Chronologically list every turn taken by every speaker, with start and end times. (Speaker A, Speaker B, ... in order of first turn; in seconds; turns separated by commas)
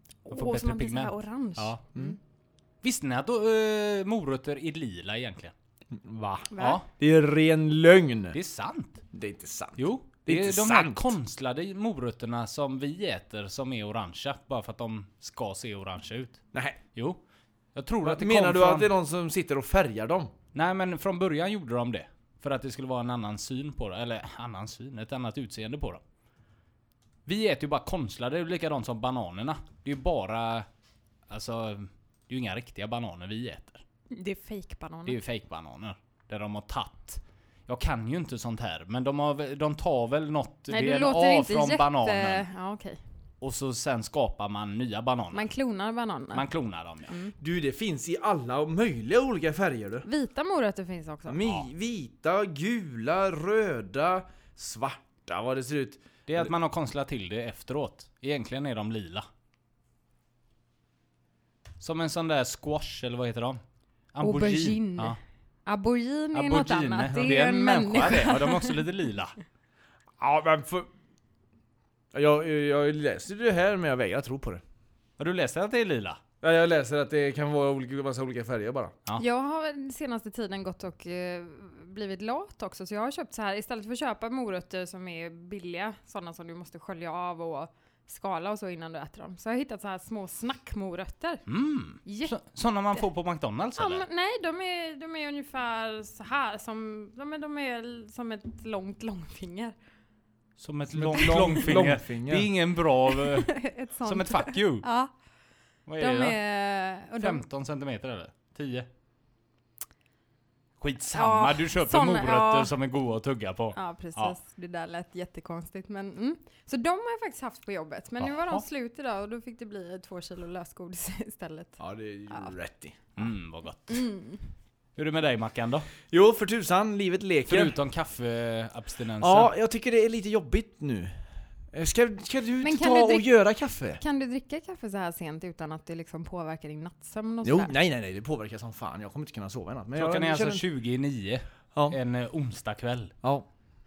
Speaker A: 0.3-2.2, Speaker B: 0.3-1.8, Speaker B: 2.8-5.5, Speaker C: 5.9-8.4, Speaker A: 6.5-6.8, Speaker B: 6.6-6.9, Speaker B: 8.3-9.1, Speaker C: 9.1-11.1, Speaker B: 9.8-17.2, Speaker C: 16.5-16.8, Speaker B: 17.8-18.9, Speaker C: 18.0-20.3, Speaker B: 20.5-26.0, Speaker B: 27.3-30.7, Speaker B: 31.3-33.8, Speaker A: 34.1-35.2, Speaker B: 35.1-42.5, Speaker A: 40.7-43.0, Speaker B: 43.4-45.5, Speaker A: 45.3-46.5, Speaker B: 46.3-47.1, Speaker A: 47.1-47.4, Speaker C: 47.4-50.1, Speaker A: 50.0-51.4, Speaker C: 51.3-56.5, Speaker B: 56.3-59.3, Speaker B: 61.8-63.6, Speaker B: 64.1-65.2, Speaker A: 64.2-68.8, Speaker B: 66.3-69.4, Speaker C: 70.2-70.9, Speaker C: 72.1-74.6, Speaker B: 75.2-76.2, Speaker C: 76.4-79.0, Speaker A: 79.2-91.4, Speaker B: 91.5-94.1, Speaker A: 92.0-92.3, Speaker A: 93.8-99.8, Speaker B: 100.6-104.9, Speaker C: 100.9-102.5, Speaker A: 103.1-105.1, Speaker B: 105.9-106.4, Speaker A: 106.0-107.4, Speaker B: 107.2-108.9, Speaker B: 110.8-114.4, Speaker A: 111.1-112.7, Speaker A: 113.8-121.8, Speaker B: 118.2-118.6, Speaker C: 121.8-123.0, Speaker B: 123.2-124.1, Speaker A: 123.9-124.5, Speaker B: 125.0-125.9, Speaker C: 126.1-127.8, Speaker B: 127.5-129.5, Speaker C: 129.2-131.2, Speaker C: 131.7-134.0, Speaker A: 132.6-133.3, Speaker A: 134.0-137.7, Speaker C: 137.4-140.7, Speaker B: 139.9-143.1